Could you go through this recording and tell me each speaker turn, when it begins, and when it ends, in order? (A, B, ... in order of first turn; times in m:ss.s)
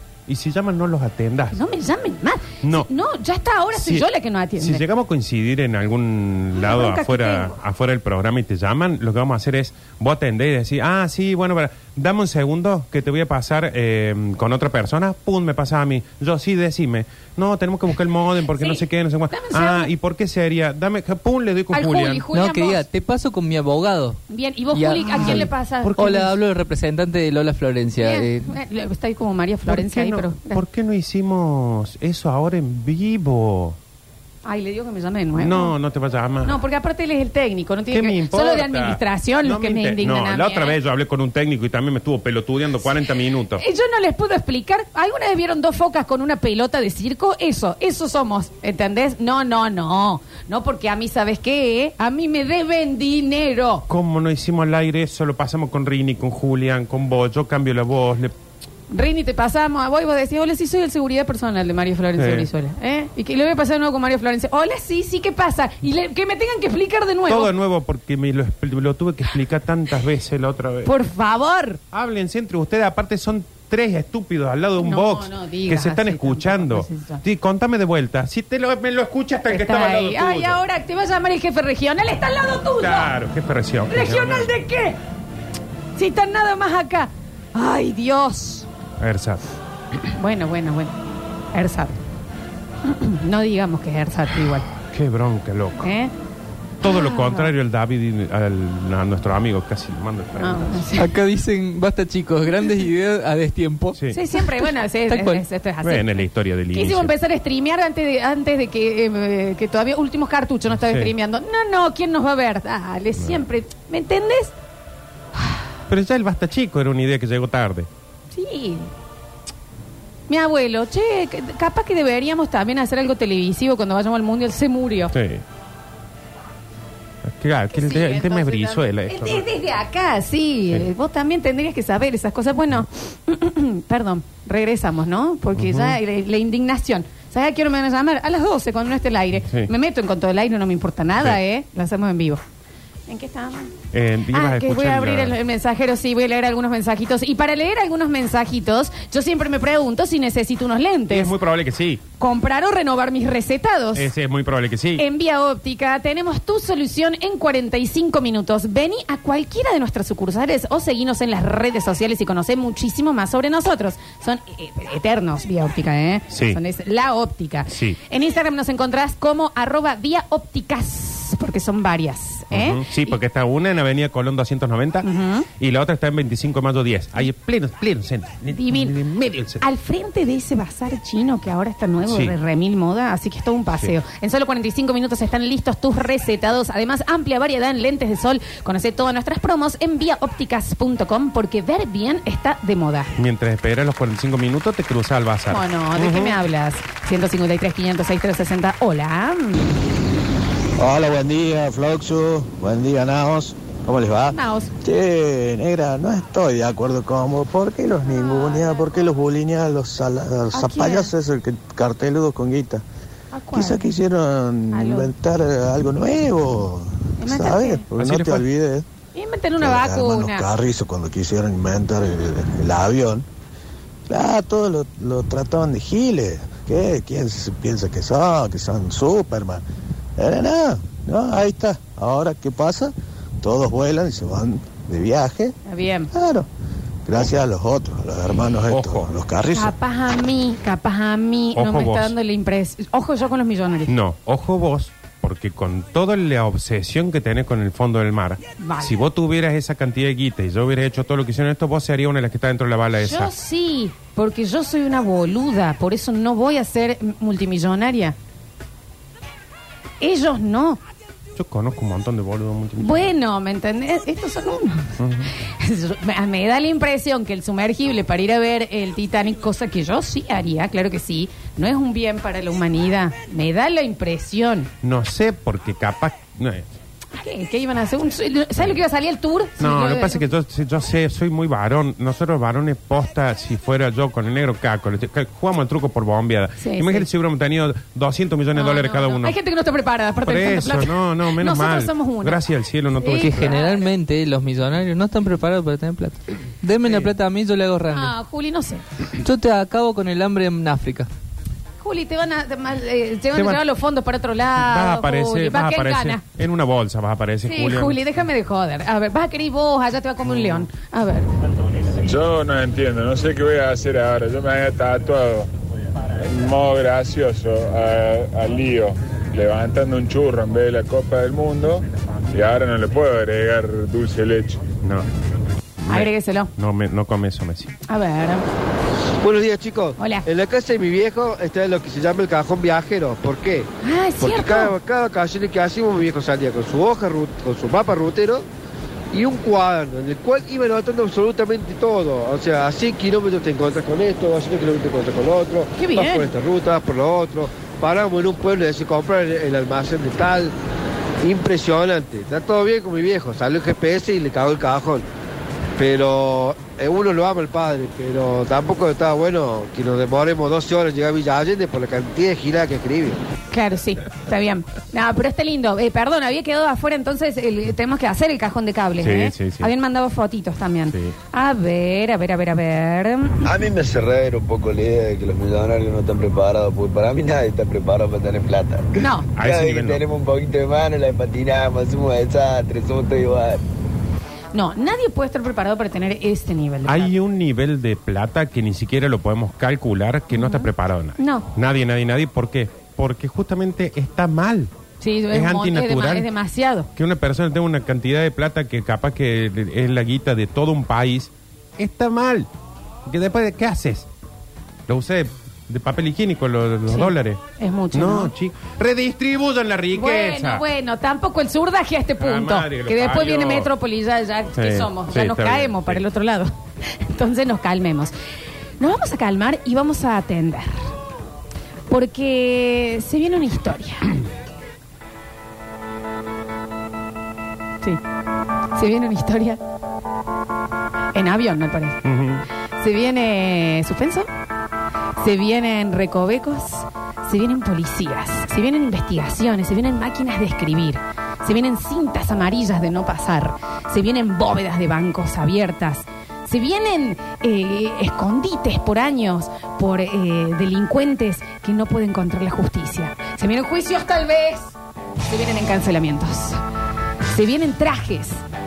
0:00.3-0:01.6 A
0:01.5-0:04.8 B
0:02.6-0:02.9 A
0:03.7-0:04.1 A
0:04.6-0:22.2 A
0:06.6-0:07.5 B
0:18.5-0:19.9 B
0:21.7-0:22.8 B
0:22.3-0:24.2 C
0:24.3-0:26.3 B
0:24.7-0:28.5 C
0:25.2-0:26.2 A
0:28.0-0:30.6 B
0:29.7-0:33.8 A
0:34.4-0:35.7 B
0:35.4-0:36.6 A
0:36.4-0:40.8 B
0:37.9-0:43.6 A
0:43.5-0:53.9 B
0:53.9-0:58.3 A
0:58.9-1:07.5 B
1:02.2-1:02.5 A
1:07.3-1:10.9 A
1:10.8-1:11.8 B
1:11.9-1:20.6 A
1:14.8-1:17.2 B
1:19.5-1:23.1 B
1:22.8-1:24.5 A
1:23.9-1:25.0 B
1:26.0-1:28.7 B
1:29.0-1:29.4 A
1:30.1-1:31.0 B
1:31.5-1:32.0 B
1:32.8-1:34.7 B
1:34.8-1:35.9 A
1:35.8-1:36.1 B
1:36.8-1:41.0 A
1:36.8-1:37.5 B
1:40.4-1:41.1 B
1:41.0-1:45.4 C
1:44.0-1:44.2 A
1:44.1-1:54.6 B
1:45.8-1:47.1 A
1:50.8-1:51.1 A
1:55.9-1:57.9 A
1:58.3-1:58.9 B
2:00.3-2:05.1 B
2:05.1-2:05.4 A
2:07.2-2:09.4 A
2:07.7-2:22.4 B
2:15.6-2:16.0 A
2:23.1-2:23.7 B
2:23.9-2:25.4 A
2:24.3-2:31.3 B
2:31.1-2:32.0 A
2:32.2-2:34.1 B
2:33.9-2:35.0 A
2:35.0-2:53.2 B
2:46.3-2:46.6 A
2:47.7-2:48.0 A
2:52.5-2:55.1 A
2:55.0-2:55.5 B
2:55.6-2:59.6 A
2:58.5-2:58.9 B
2:59.6-3:13.1 B
3:02.1-3:02.4 A
3:13.2-3:16.4 A
3:15.5-3:19.8 B
3:20.8-3:32.8 D
3:24.3-3:24.7 B
3:28.1-3:28.8 B
3:30.5-3:31.1 B
3:33.3-3:33.9 B
3:33.5-3:38.8 D
3:34.7-3:35.1 B
3:37.2-3:37.8 B
3:38.0-3:38.4 A
3:39.2-3:40.5 B
3:39.6-3:43.2 D
3:44.1-3:49.6 D
3:50.2-3:55.6 D
3:55.6-3:56.1 B
3:56.1-3:56.5 D
3:57.0-3:59.8 D
3:58.7-3:59.1 A
3:59.5-4:03.9 B
4:01.6-4:02.1 A
4:03.9-4:13.3 A
4:08.6-4:08.9 B
4:13.0-4:18.2 B
4:20.0-4:20.8 B
4:21.4-4:23.1 A
4:22.8-4:34.7 B
4:25.0-4:25.3 A
4:34.8-4:36.7 A
4:37.2-4:40.2 B
4:39.6-4:49.4 A
4:46.6-4:47.1 B
4:48.5-4:52.4 B
4:50.2-4:53.5 A
4:53.0-4:53.9 B
4:53.1-4:58.1 C
4:56.8-4:57.1 A
4:57.9-4:58.8 B
4:59.2-5:01.1 C
5:01.8-5:06.2 B
5:03.3-5:03.6 A
5:04.5-5:08.0 A
5:07.4-5:11.3 B
5:10.3-5:10.6 A
5:11.9-5:15.5 E
5:16.1-5:24.6 E
5:25.8-5:27.8 A
5:25.9-5:26.5 B
5:27.9-5:28.5 B
5:29.2-5:38.5 F
5:30.0-5:30.2 B
5:33.8-5:34.8 B
5:39.1-5:50.5 F
5:45.8-5:46.3 B
5:51.2-5:55.0 F
5:55.8-6:03.2 F
6:03.5-6:13.5 B
6:09.0-6:09.7 A
6:10.9-6:11.2 A
6:13.4-6:23.6 G
6:19.0-6:19.3 B
6:19.4-6:20.0 A
6:24.5-6:27.1 B
6:26.9-6:34.7 A
6:30.3-6:31.5 B
6:35.0-6:36.9 B
6:35.3-6:36.3 A
6:36.9-6:42.5 A
6:43.1-6:44.1 A
6:44.9-6:47.4 A
6:46.9-6:48.3 B
6:47.9-6:50.6 A
6:49.9-6:58.1 B
6:52.2-6:53.7 A
6:54.6-6:56.0 A
6:58.8-7:01.0 B
7:01.9-7:04.2 B
7:08.8-7:09.6 B
7:11.1-7:12.0 B
7:12.0-7:12.4 A
7:12.8-7:14.3 B
7:15.2-7:34.8 B
7:35.2-7:36.6 B
7:37.3-7:38.4 B